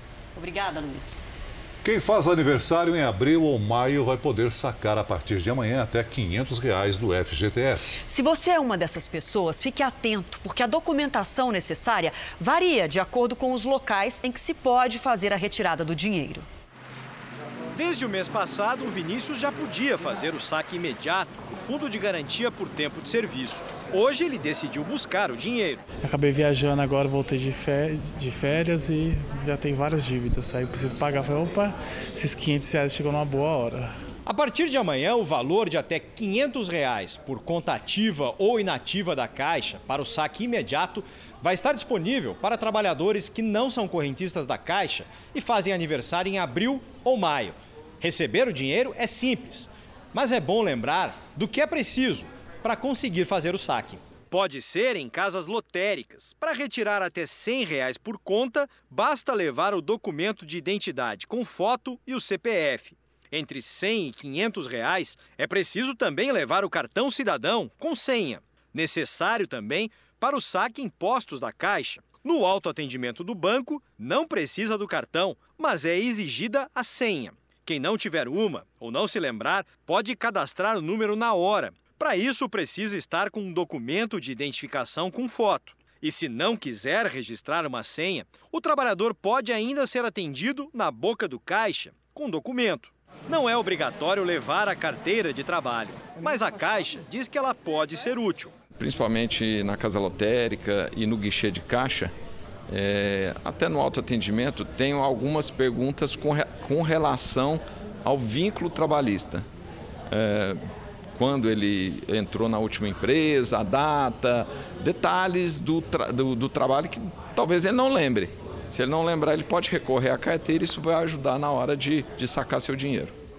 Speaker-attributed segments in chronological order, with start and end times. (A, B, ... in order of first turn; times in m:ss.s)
0:00.4-0:01.2 A
0:01.8-0:08.0 B
0:08.0-0:16.5 A
0:17.8-0:25.8 C
0:26.0-0:34.0 D
0:34.3-1:38.5 C
1:38.8-1:42.1 E
1:42.7-1:49.5 E
1:50.1-1:50.6 E
1:51.2-2:03.1 E